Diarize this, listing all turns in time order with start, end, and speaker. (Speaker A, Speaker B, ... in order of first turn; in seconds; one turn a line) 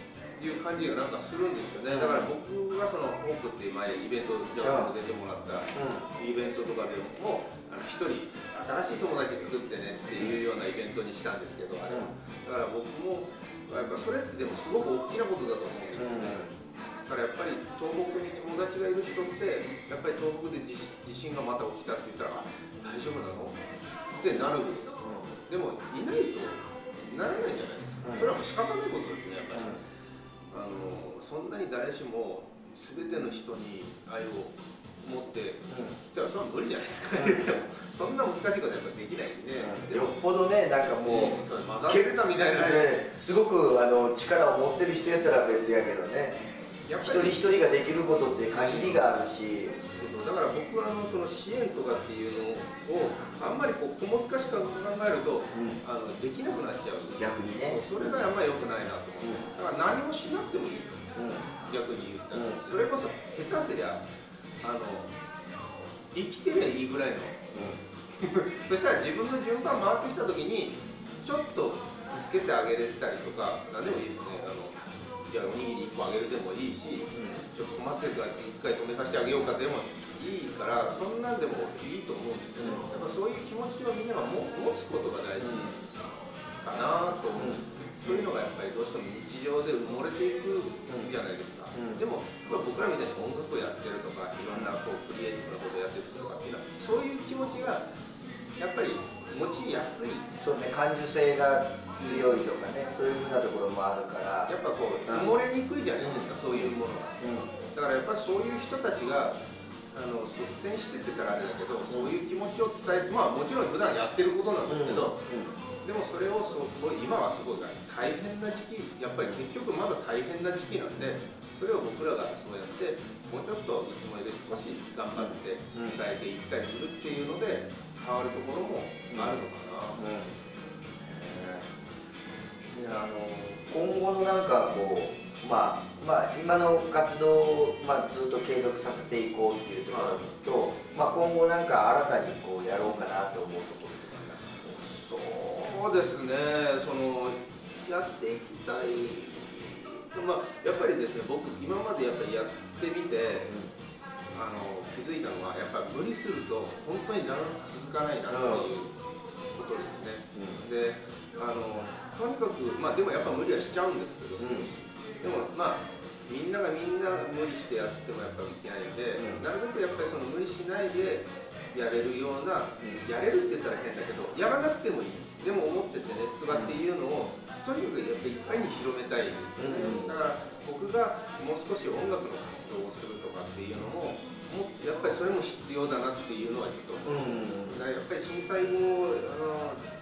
Speaker A: 0.4-23.6
Speaker B: 1.9-2.3
Speaker B: 4.6-4.9
Speaker B: 5.7-6.0
Speaker B: 16.0-16.5
Speaker A: 24.2-29.8
Speaker B: 25.0-25.3
Speaker B: 28.0-28.4
Speaker A: 30.5-40.2
Speaker B: 37.2-37.5
Speaker B: 39.6-49.8
Speaker A: 41.0-43.0
Speaker A: 46.9-47.6
Speaker A: 48.5-49.0
Speaker A: 49.9-61.1
Speaker B: 55.5-55.8
Speaker B: 57.2-58.2
Speaker B: 59.2-59.5
Speaker B: 61.2-61.5
Speaker A: 61.6-64.0
Speaker B: 62.3-62.6
Speaker A: 64.6-65.1
Speaker A: 66.1-67.5
Speaker B: 67.5-67.8
Speaker A: 68.2-85.9
Speaker B: 77.1-77.4
Speaker B: 82.6-83.0
Speaker B: 85.4-85.7
Speaker A: 86.6-97.9
Speaker B: 87.4-88.3
Speaker B: 91.7-92.0
Speaker A: 98.6-100.3
Speaker B: 100.4-104.5
Speaker A: 102.0-102.4
Speaker A: 104.5-107.2
Speaker B: 105.1-105.4
Speaker B: 106.0-107.5
Speaker A: 107.7-109.4
Speaker A: 109.9-115.2
Speaker B: 114.7-115.6
Speaker A: 115.8-130.0
Speaker B: 125.2-126.0
Speaker B: 129.1-129.4
Speaker B: 130.0-130.4
Speaker B: 131.0-131.7
Speaker B: 132.7-144.8
Speaker A: 139.9-140.2
Speaker A: 144.8-153.6
Speaker A: 154.3-158.9
Speaker B: 158.3-158.7
Speaker A: 159.5-164.6
Speaker B: 160.3-160.6
Speaker B: 164.4-164.7
Speaker A: 165.2-189.8
Speaker B: 169.2-169.4
Speaker B: 176.5-176.8
Speaker B: 179.6-180.2
Speaker B: 187.1-187.8